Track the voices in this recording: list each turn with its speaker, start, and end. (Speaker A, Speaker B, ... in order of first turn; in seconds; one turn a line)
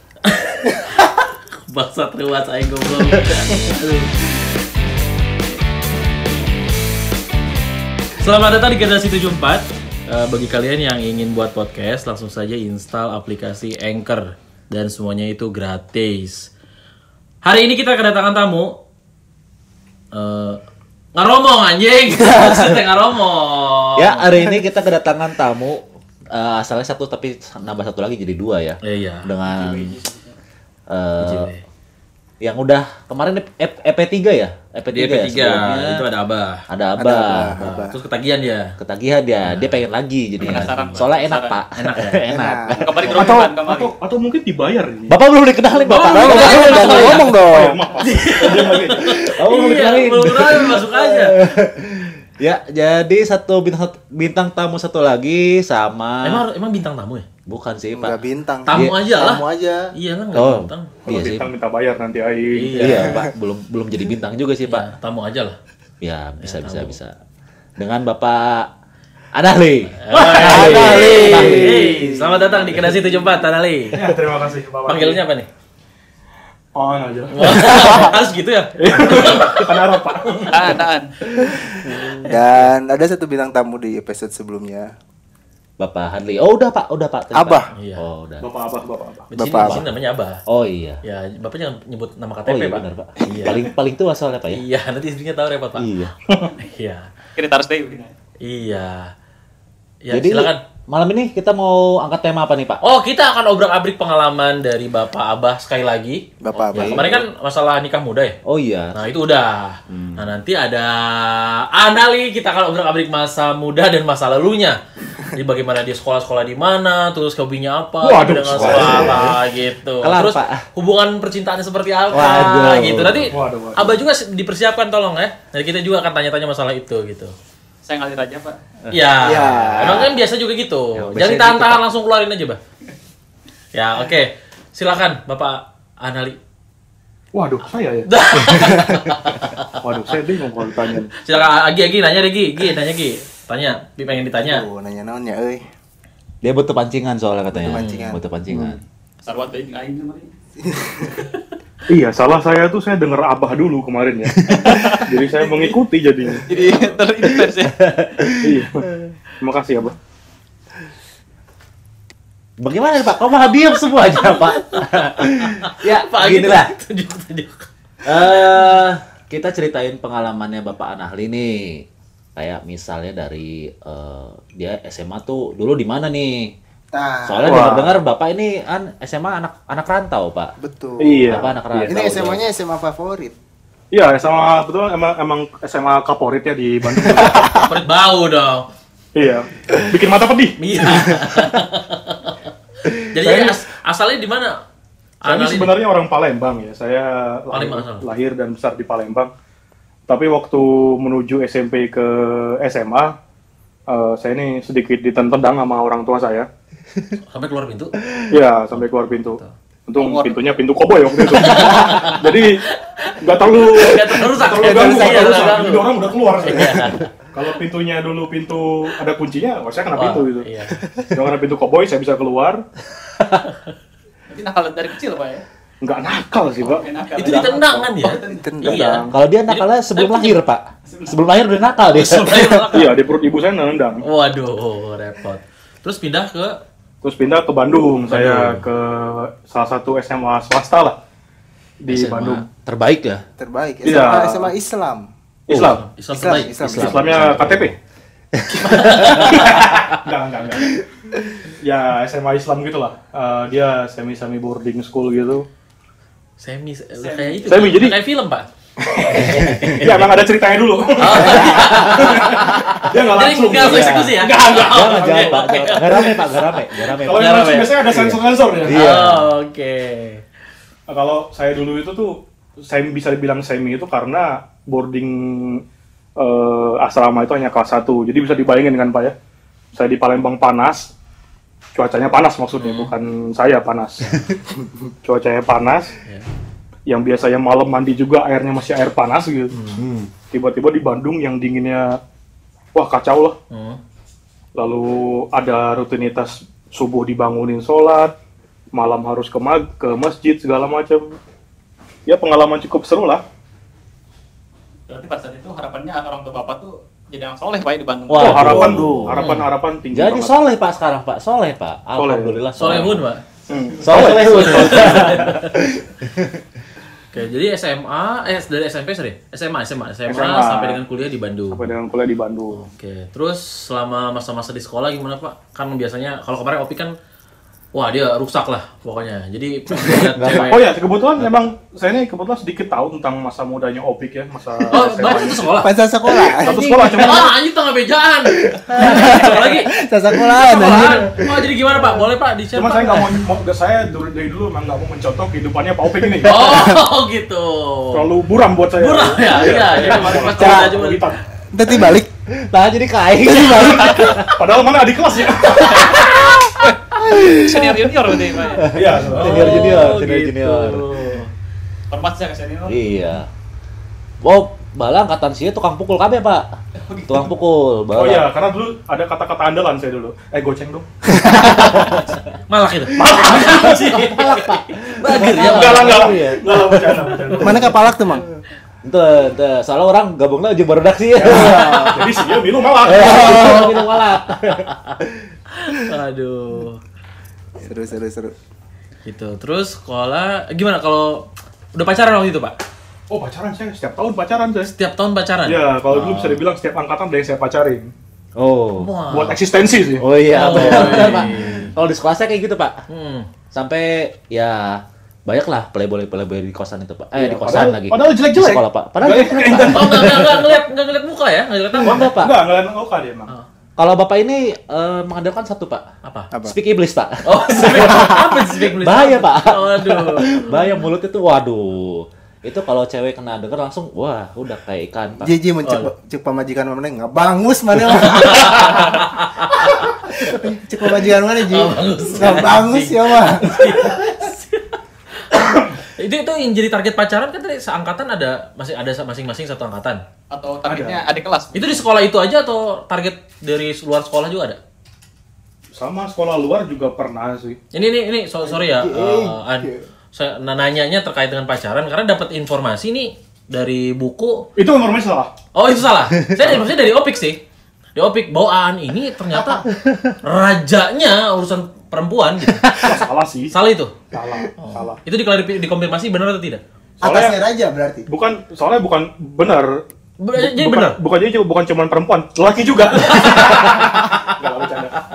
Speaker A: 0.2-4.3
Speaker A: 8.2-16.5
Speaker A: 17.4-18.8
Speaker A: 20.1-20.6
Speaker A: 21.1-24.3
Speaker B: 22.3-22.8
Speaker B: 24.0-29.9
Speaker A: 28.8-29.3
Speaker C: 29.5-30.3
Speaker B: 30.9-31.5
Speaker A: 31.2-31.6
Speaker B: 32.4-36.0
Speaker A: 34.9-36.6
Speaker B: 36.7-37.7
Speaker D: 37.0-38.0
Speaker A: 37.6-38.7
Speaker B: 38.8-43.5
Speaker A: 39.4-39.8
Speaker C: 40.4-41.6
Speaker A: 41.8-42.2
Speaker D: 42.3-43.1
Speaker C: 42.8-43.9
Speaker E: 43.1-45.2
Speaker B: 45.1-47.3
Speaker A: 45.8-47.3
Speaker D: 45.9-47.8
Speaker E: 47.3-49.2
Speaker A: 48.0-51.4
Speaker B: 49.0-56.4
Speaker A: 56.2-57.3
Speaker B: 57.5-59.0
Speaker D: 58.0-59.9
Speaker A: 58.7-60.9
Speaker B: 60.3-61.5
Speaker E: 61.0-63.0
Speaker A: 62.5-63.2
Speaker B: 62.8-64.9
Speaker A: 64.7-65.6
Speaker B: 66.0-67.1
Speaker A: 66.4-67.0
Speaker B: 67.8-68.7
Speaker B: 69.3-72.1
Speaker A: 70.0-74.1
Speaker E: 70.1-71.5
Speaker D: 70.5-72.2
Speaker E: 73.9-75.2
Speaker A: 74.9-75.5
Speaker E: 76.8-78.1
Speaker A: 77.3-80.5
Speaker D: 77.8-78.1
Speaker E: 78.8-80.8
Speaker C: 80.5-81.1
Speaker A: 81.3-82.7
Speaker D: 81.9-84.9
Speaker B: 85.8-88.5
Speaker D: 87.3-87.7
Speaker A: 87.8-88.1
Speaker E: 88.4-89.3
Speaker D: 89.3-89.8
Speaker A: 89.4-90.4
Speaker B: 89.4-89.9
Speaker B: 90.5-91.0
Speaker A: 91.0-93.6
Speaker B: 92.5-94.6
Speaker A: 94.5-95.9
Speaker B: 95.8-96.1
Speaker A: 96.6-97.1
Speaker C: 97.4-98.1
Speaker A: 98.4-99.1
Speaker A: 100.0-100.6
Speaker B: 100.1-102.8
Speaker A: 102.8-108.4
Speaker D: 106.4-107.2
Speaker B: 106.7-107.2
Speaker B: 108.5-109.0
Speaker A: 108.9-127.3
Speaker B: 109.9-110.2
Speaker E: 118.0-119.4
Speaker B: 118.5-119.3
Speaker B: 120.0-120.6
Speaker B: 122.1-123.3
Speaker E: 123.3-124.0
Speaker C: 127.8-128.6
Speaker B: 128.8-130.1
Speaker A: 128.9-132.6
Speaker D: 129.2-130.1
Speaker B: 130.9-131.8
Speaker A: 133.7-136.4
Speaker E: 137.3-138.7
Speaker A: 138.1-139.8
Speaker E: 139.8-141.1
Speaker A: 141.2-144.6
Speaker D: 144.4-145.6
Speaker B: 146.4-148.8
Speaker D: 147.5-148.2
Speaker A: 147.7-148.1
Speaker E: 148.5-148.8
Speaker C: 149.2-150.3
Speaker D: 150.6-151.2
Speaker E: 151.9-156.5
Speaker C: 154.5-155.8
Speaker C: 156.5-157.8
Speaker A: 156.5-156.9
Speaker B: 157.8-158.6
Speaker E: 158.3-158.9
Speaker E: 159.4-159.9
Speaker B: 162.6-166.7
Speaker A: 164.2-167.7
Speaker B: 168.0-176.5
Speaker D: 176.9-177.7
Speaker B: 177.2-180.5
Speaker E: 177.4-177.9
Speaker D: 180.6-183.3
Speaker E: 181.0-181.9
Speaker B: 181.3-182.4
Speaker E: 183.9-187.7
Speaker D: 187.2-187.4
Speaker A: 187.3-188.7
Speaker E: 189.1-191.1
Speaker A: 190.6-194.6
Speaker E: 193.2-193.6
Speaker A: 195.2-195.8
Speaker E: 195.2-199.3
Speaker A: 197.5-198.1
Speaker E: 200.1-203.1
Speaker E: 203.9-206.5
Speaker A: 207.3-208.0
Speaker E: 208.3-212.7
Speaker A: 209.1-209.5
Speaker C: 209.9-210.5
Speaker A: 211.3-217.0
Speaker E: 213.2-220.5
Speaker A: 219.9-220.8
Speaker E: 221.1-222.6
Speaker C: 224.3-225.4
Speaker E: 225.8-227.9
Speaker C: 226.6-228.5
Speaker A: 227.1-230.4
Speaker D: 228.0-229.1
Speaker E: 228.6-229.1
Speaker B: 229.1-232.7
Speaker C: 230.8-231.2
Speaker A: 231.9-233.0
Speaker E: 232.7-234.0
Speaker A: 234.0-236.6
Speaker E: 237.0-240.9
Speaker A: 238.1-238.6
Speaker E: 241.8-242.4
Speaker B: 241.9-243.2
Speaker D: 243.4-245.1
Speaker E: 243.8-244.5
Speaker E: 245.5-245.8
Speaker B: 245.5-245.8
Speaker A: 245.5-247.7
Speaker D: 246.1-247.3
Speaker B: 246.3-247.6
Speaker E: 246.7-247.7
Speaker B: 248.3-249.3
Speaker A: 248.6-249.8
Speaker E: 248.7-250.8
Speaker E: 251.4-255.4
Speaker A: 256.4-258.5
Speaker C: 257.0-257.7
Speaker E: 257.4-258.0
Speaker E: 258.8-265.8
Speaker B: 259.1-259.9
Speaker A: 259.2-260.0
Speaker A: 261.0-267.8
Speaker B: 261.4-262.6
Speaker B: 263.6-269.3
Speaker E: 267.0-268.9
Speaker A: 268.7-270.2
Speaker E: 270.9-275.6
Speaker E: 276.2-279.1
Speaker E: 279.7-280.9
Speaker E: 281.8-285.9
Speaker A: 282.6-282.9
Speaker E: 286.9-289.6
Speaker A: 289.5-289.8
Speaker B: 289.8-290.1
Speaker E: 290.2-292.0
Speaker E: 292.7-293.4
Speaker A: 293.5-293.8
Speaker E: 294.6-298.1
Speaker E: 298.7-301.0
Speaker E: 302.1-303.2
Speaker C: 304.9-308.9
Speaker B: 308.1-309.3
Speaker E: 308.1-310.4
Speaker A: 309.1-309.5
Speaker B: 309.9-313.0
Speaker E: 311.9-312.5
Speaker A: 312.6-313.2
Speaker E: 313.5-315.3
Speaker B: 313.8-316.4
Speaker A: 314.1-315.7
Speaker A: 317.1-321.7
Speaker E: 320.1-320.8
Speaker E: 321.5-322.7
Speaker A: 322.5-326.9
Speaker A: 327.7-330.8
Speaker B: 329.9-330.5
Speaker E: 330.3-335.6
Speaker A: 334.7-339.7
Speaker D: 335.6-337.1
Speaker E: 336.4-337.3
Speaker B: 336.5-337.0
Speaker D: 338.6-341.3
Speaker B: 338.8-339.3
Speaker A: 340.3-343.2
Speaker B: 341.8-342.0
Speaker E: 342.5-346.7
Speaker A: 346.2-348.1
Speaker E: 347.9-351.2
Speaker A: 348.7-351.1
Speaker D: 350.3-350.8
Speaker D: 351.5-352.1
Speaker B: 352.5-354.3
Speaker D: 353.2-354.2
Speaker E: 354.1-356.1
Speaker C: 355.5-358.7
Speaker A: 355.6-356.4
Speaker D: 357.0-357.9
Speaker B: 358.5-360.8
Speaker E: 358.7-359.7
Speaker A: 359.1-361.3
Speaker C: 361.9-362.8
Speaker B: 362.7-363.3
Speaker B: 364.2-366.5
Speaker C: 366.9-367.3
Speaker B: 367.1-368.3
Speaker E: 367.9-370.9
Speaker D: 371.1-371.9
Speaker B: 371.5-372.1
Speaker A: 371.7-376.1
Speaker E: 373.0-373.8
Speaker B: 373.1-377.6
Speaker E: 375.2-377.7
Speaker A: 377.3-377.6
Speaker D: 377.4-378.3
Speaker B: 378.8-382.1
Speaker E: 381.2-383.5
Speaker A: 381.2-382.2
Speaker B: 382.8-384.7
Speaker A: 383.0-383.8
Speaker D: 383.0-383.7
Speaker A: 384.5-385.0
Speaker A: 385.5-386.8
Speaker D: 387.6-388.3
Speaker A: 389.1-392.6
Speaker E: 393.1-394.7
Speaker A: 394.6-396.4
Speaker E: 395.5-397.9
Speaker B: 398.4-398.9
Speaker A: 398.8-399.4
Speaker E: 399.1-401.3
Speaker B: 400.0-402.8
Speaker A: 400.3-401.7
Speaker A: 402.9-403.3
Speaker B: 403.5-410.5
Speaker E: 407.2-410.2
Speaker A: 409.7-412.2
Speaker B: 411.8-412.4
Speaker E: 411.8-413.3
Speaker B: 413.8-415.9
Speaker A: 416.0-416.3
Speaker B: 416.4-425.3
Speaker A: 417.2-420.6
Speaker D: 425.2-434.1
Speaker A: 425.6-425.9
Speaker A: 428.0-429.9
Speaker A: 431.5-434.8
Speaker A: 435.3-440.0
Speaker C: 440.3-441.9
Speaker E: 440.7-441.1
Speaker A: 441.5-444.6
Speaker E: 445.8-447.6
Speaker A: 447.7-454.5
Speaker D: 448.5-449.9
Speaker E: 454.6-455.3
Speaker A: 455.5-457.4
Speaker A: 457.9-459.7
Speaker D: 459.3-459.6
Speaker A: 460.2-462.7
Speaker B: 462.6-462.9
Speaker E: 462.8-463.5
Speaker A: 463.5-464.0
Speaker E: 464.1-465.0
Speaker A: 464.6-466.6
Speaker E: 467.0-467.4
Speaker D: 467.0-468.1
Speaker E: 468.1-469.8
Speaker A: 470.2-471.0
Speaker E: 470.4-475.0
Speaker A: 472.9-474.3